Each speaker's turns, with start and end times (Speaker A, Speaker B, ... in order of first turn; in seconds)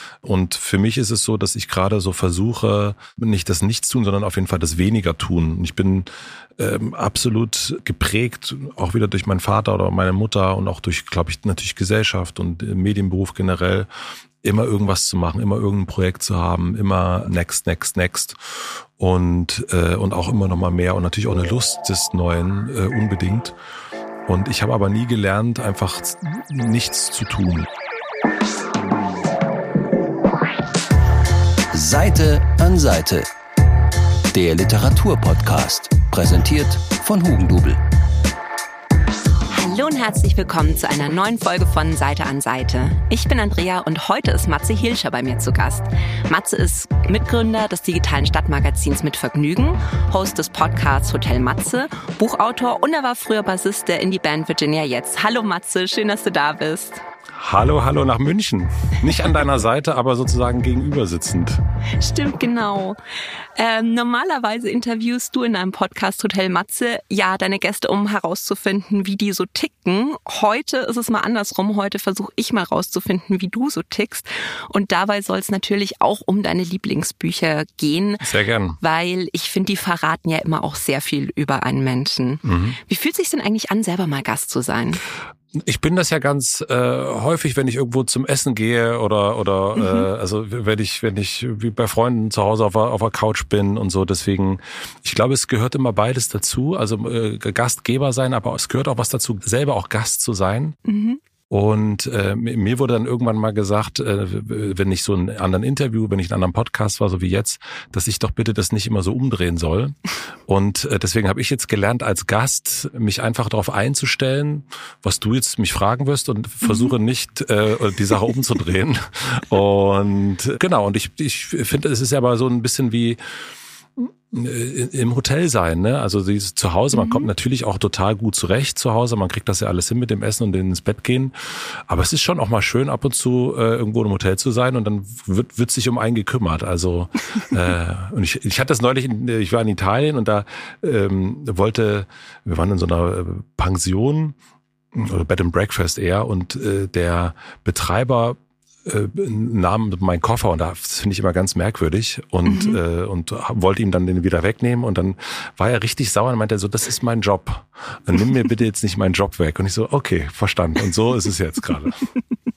Speaker A: 0.2-13.9, 14.4-23.5, 24.3-27.7, 57.4-61.6, 78.2-78.8, 82.4-82.8, 85.5-100.8, 101.5-110.0, 110.5-123.2, 124.0-144.4, 144.9-162.0
Speaker B: 31.7-33.3, 34.3-37.8
Speaker C: 39.5-57.0, 62.0-63.0, 63.5-78.3, 78.8-85.0, 89.8-90.1, 100.9-101.2, 116.6-116.9, 126.9-127.3, 152.5-152.8